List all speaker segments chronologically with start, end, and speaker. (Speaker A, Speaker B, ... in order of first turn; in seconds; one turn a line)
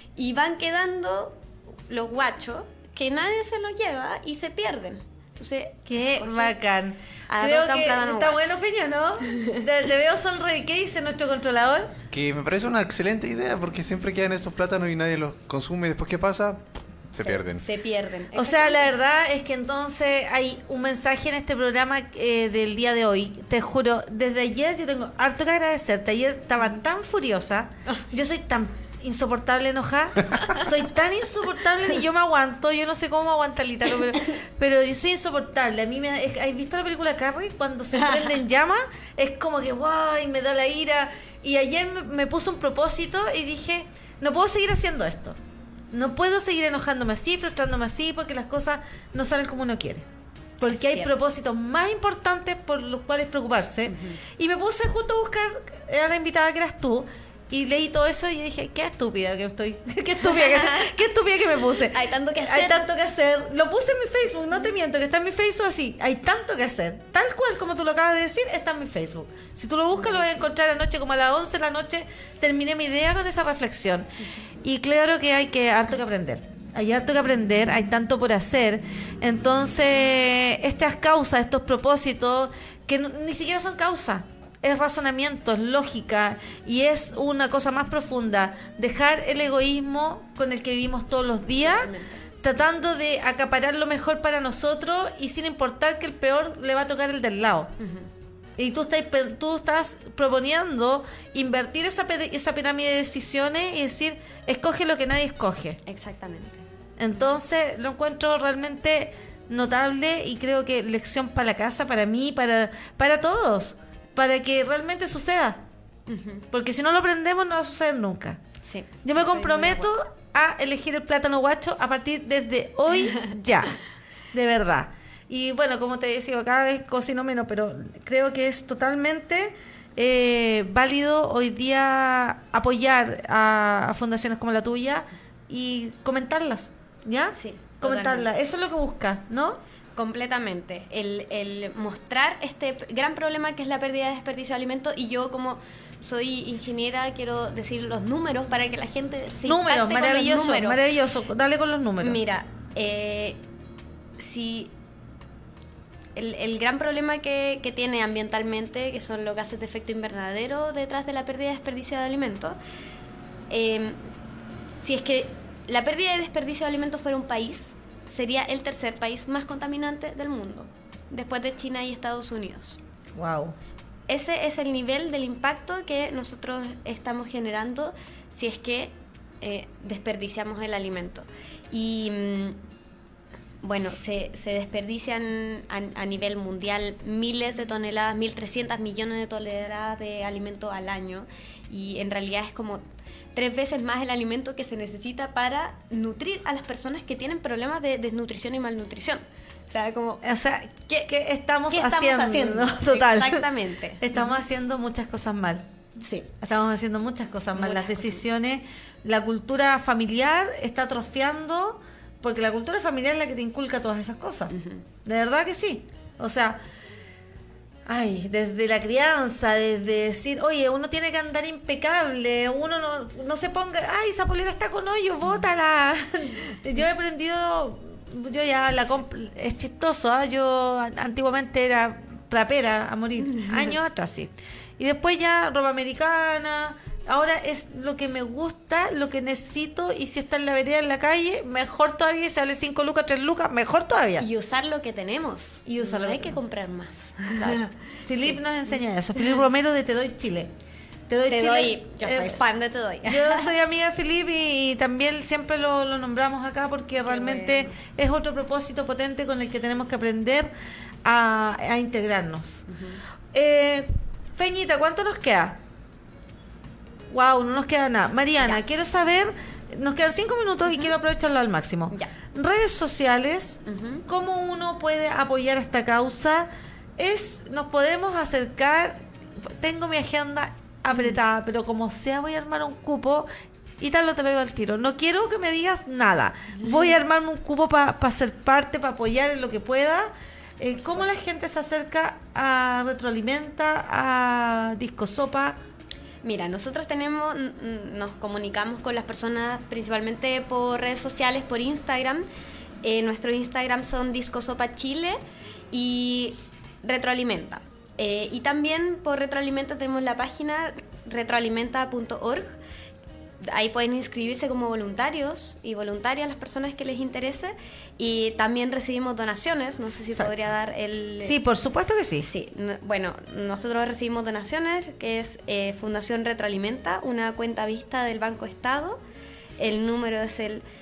Speaker A: 0.2-6.5
Speaker B: 5.9-12.0
Speaker A: 7.3-8.4
Speaker A: 9.3-9.6
Speaker C: 12.1-17.6
Speaker A: 17.2-18.9
Speaker B: 18.3-45.4
Speaker A: 38.0-38.3
Speaker B: 45.9-50.1
Speaker B: 50.6-97.7
Speaker A: 50.7-51.1
Speaker A: 53.9-54.2
Speaker A: 60.2-60.9
Speaker A: 61.7-62.9
Speaker A: 70.0-70.4
Speaker A: 91.6-92.2
Speaker A: 97.8-98.1
Speaker B: 98.6-105.8
Speaker A: 105.9-106.6
Speaker B: 107.0-115.7
Speaker A: 116.1-116.5
Speaker B: 116.5-118.4
Speaker A: 118.6-119.9
Speaker B: 119.0-123.8
Speaker B: 124.3-139.6
Speaker A: 137.3-138.3
Speaker A: 139.9-150.8
Speaker B: 149.4-152.2
Speaker A: 152.0-153.4
Speaker A: 154.2-154.7
Speaker A: 156.2-162.6
Speaker A: 163.5-164.0
Speaker A: 164.8-172.8
Speaker B: 173.2-173.6
Speaker A: 174.1-182.6
Speaker A: 183.6-192.8
Speaker A: 193.3-200.2
Speaker B: 200.2-203.5
Speaker A: 201.7-204.3
Speaker B: 204.0-205.7
Speaker A: 206.0-206.3
Speaker B: 206.4-216.6
Speaker A: 207.5-208.2
Speaker A: 214.5-214.8
Speaker B: 217.9-244.3
Speaker A: 233.3-233.7
Speaker A: 244.2-248.4
Speaker B: 245.7-246.4
Speaker B: 247.3-250.5
Speaker A: 249.2-249.4
Speaker B: 251.1-252.4
Speaker A: 251.3-253.5
Speaker B: 253.0-260.5
Speaker A: 257.1-257.7
Speaker B: 261.0-262.7
Speaker A: 262.7-263.0
Speaker B: 263.3-265.6
Speaker B: 267.1-283.3
Speaker A: 273.7-274.1
Speaker A: 280.9-281.2
Speaker B: 283.8-295.6
Speaker A: 286.6-287.0
Speaker A: 296.2-302.3
Speaker A: 302.8-305.2
Speaker A: 305.7-312.5
Speaker A: 313.4-321.4
Speaker B: 320.1-320.4
Speaker B: 321.2-322.3
Speaker A: 322.2-329.0
Speaker A: 329.6-330.6